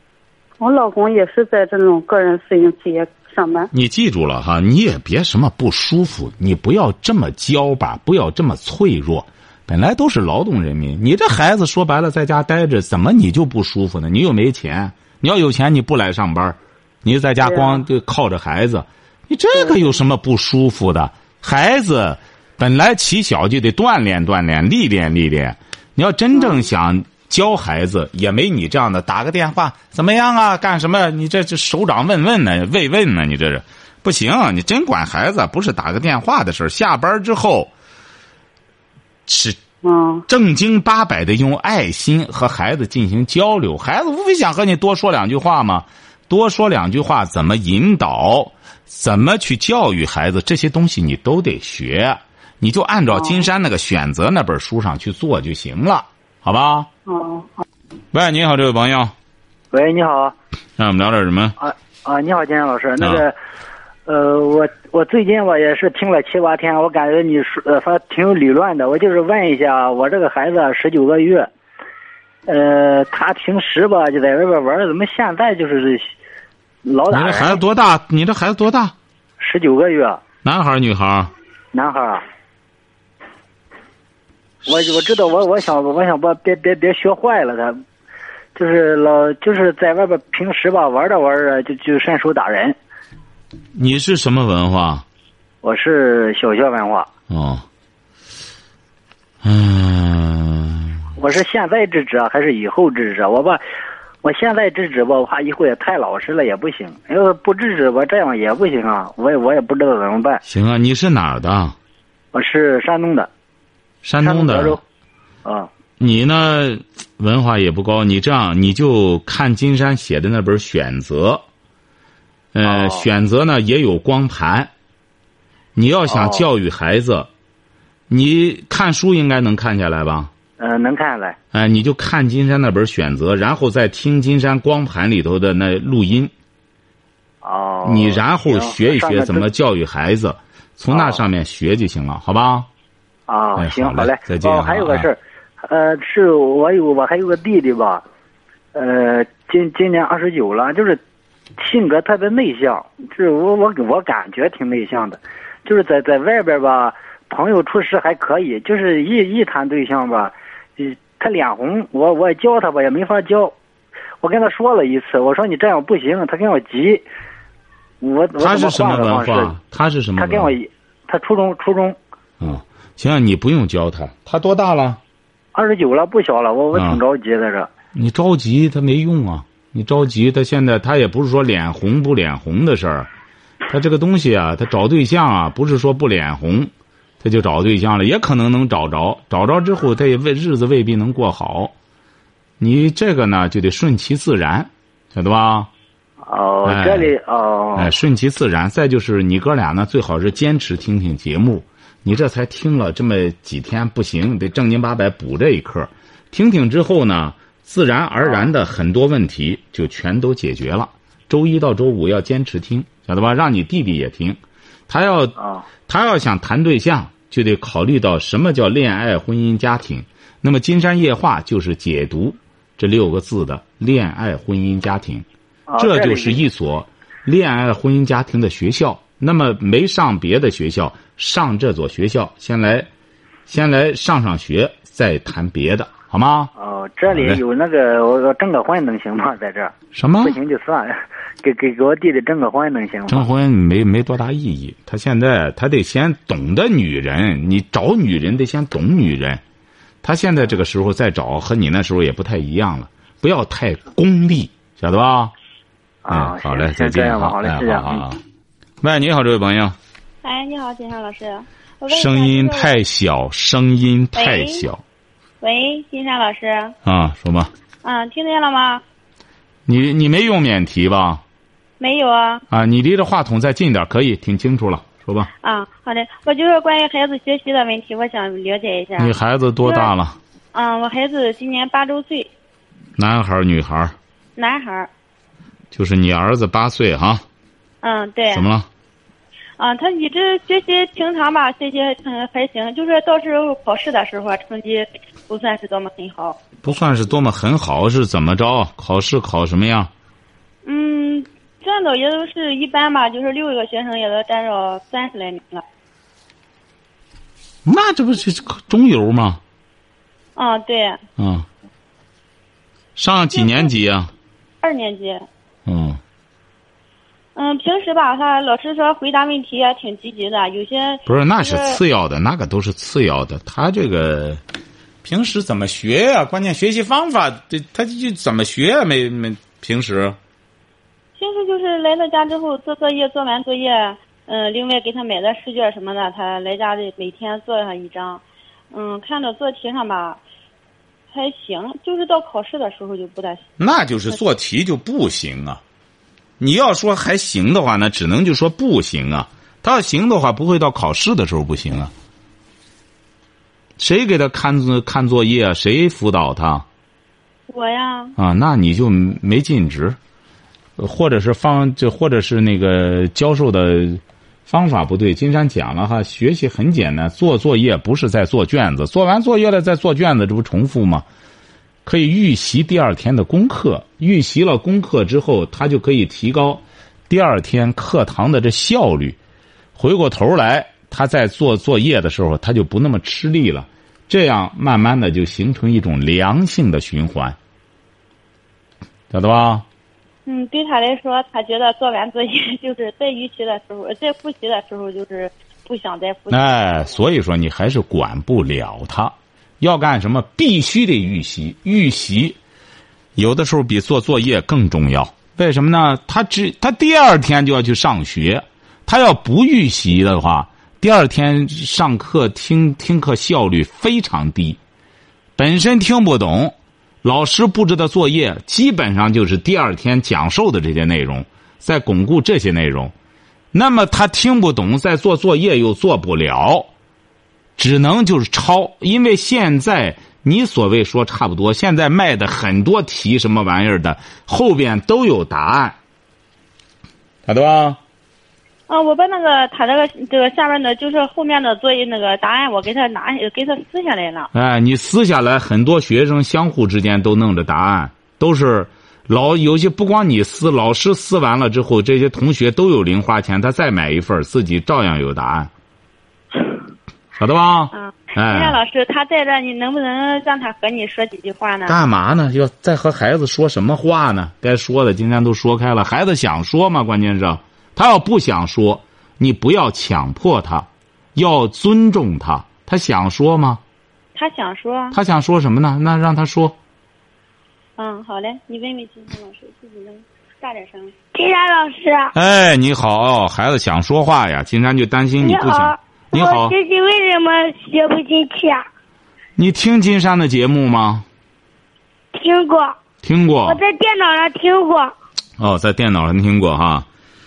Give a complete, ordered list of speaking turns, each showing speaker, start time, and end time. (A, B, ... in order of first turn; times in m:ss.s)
0:00.6-0:03.7 A
0:03.7-0:37.7 B
0:17.5-0:17.8 A
0:39.3-0:39.6 B
0:39.8-0:40.2 A
0:40.3-0:56.9 B
0:57.1-0:57.5 A
0:58.1-0:59.1 B
0:59.7-1:00.4 C
1:00.8-1:01.6 B
1:01.6-1:03.4 C
1:04.1-1:11.5 C
1:12.5-1:16.1 C
1:16.9-1:17.6 C
1:17.1-1:19.0 B
1:19.4-1:20.2 C
1:20.4-1:21.3 B
1:21.7-1:22.2 C
1:24.7-1:27.8 C
1:28.6-1:32.8 C
1:33.8-1:35.0 B
1:35.6-1:37.1 C
1:37.3-1:37.7 B
1:39.4-1:41.0 B
1:41.2-1:43.6 C
1:44.2-1:50.4 C
1:50.4-1:51.8 B
1:52.3-1:53.3 C
1:54.0-1:54.8 B
1:54.2-1:54.8 C
1:56.0-2:01.4 B
2:02.5-2:04.7 B
2:02.7-2:03.0 C
2:05.8-2:07.3 B
2:06.1-2:06.4 C
2:08.1-2:10.3 B
2:10.6-2:11.4 C
2:11.5-2:16.3 B
2:17.4-2:19.5 C
2:17.8-2:22.7 B
2:20.9-2:21.2 C
2:23.3-2:28.0 C
2:23.6-2:25.1 B
2:28.8-2:31.0 C
2:31.6-2:43.6 C
2:44.2-2:47.1 C
2:48.0-2:49.6 C
2:48.4-2:50.6 B
2:50.2-2:52.0 C
2:52.4-2:55.0 B
2:55.6-2:57.7 C
2:56.7-2:57.0 B
2:58.0-3:03.1 B
3:03.7-3:11.7 B
3:12.6-3:15.7 B
3:16.2-3:17.9 C
3:16.6-3:17.1 B
3:17.8-3:45.2 B
3:35.4-3:35.6 C
3:45.7-3:46.4 C
3:45.8-3:52.9 B
3:53.5-3:56.5 B
3:56.6-4:03.3 C
3:57.1-3:57.4 B
3:59.9-4:00.4 B
4:03.1-4:09.4 B
4:10.0-4:15.3 B
4:16.0-4:18.0 C
4:16.1-4:18.2 B
4:18.8-4:19.8 B
4:20.2-4:22.8 D
4:21.9-4:24.8 B
4:24.2-4:24.6 D
4:25.4-4:26.7 D
4:26.8-4:27.5 B
4:27.8-4:28.8 D
4:29.7-4:31.2 B
4:31.8-4:32.4 D
4:32.5-4:35.3 B
4:35.4-4:39.9 D
4:39.0-4:40.2 B
4:40.5-4:42.3 D
4:43.0-4:44.0 B
4:44.4-4:44.9 D
4:45.7-4:47.2 B
4:47.8-4:48.5 D
4:48.3-4:48.7 B
4:49.6-4:56.4 D
4:56.6-4:59.9 B
5:00.6-5:05.6 D
5:07.6-5:09.4 B
5:10.4-5:11.0 D
5:11.2-5:11.5 B
5:13.0-5:14.1 B
5:13.3-5:13.7 D
5:14.6-5:15.3 D
5:15.7-5:16.0 B
5:17.4-5:21.8 D
5:21.1-5:24.4 B
5:25.0-5:30.2 B
5:31.2-5:40.2 D
5:41.1-5:43.5 D
5:43.6-5:45.6 B
5:46.4-5:51.9 B
5:53.8-5:56.7 B
5:57.5-5:58.1 D
5:58.2-6:00.0 B
6:00.8-6:11.0 B
6:11.8-6:19.2 B
6:19.8-6:27.4 B
6:29.1-6:29.7 B
6:30.3-6:36.5 D
6:36.3-6:42.4 B
6:43.2-6:54.6 B
6:55.4-7:02.9 B
7:03.5-7:06.7 B
7:07.6-7:15.8 B
7:17.3-7:17.8 B
7:18.7-7:24.3 D
7:24.3-7:35.5 B
7:37.2-7:38.6 B
7:37.7-7:41.8 D
7:41.7-7:53.6 B
7:54.2-7:55.0 D
7:54.9-7:56.6 B
7:57.8-8:00.9 D
8:01.1-8:02.1 E
8:02.1-8:06.6 B
8:05.2-8:08.7 E
8:09.4-8:11.0 B
8:12.1-8:12.8 E
8:13.0-8:13.6 B
8:13.5-8:14.9 E
8:15.4-8:16.9 B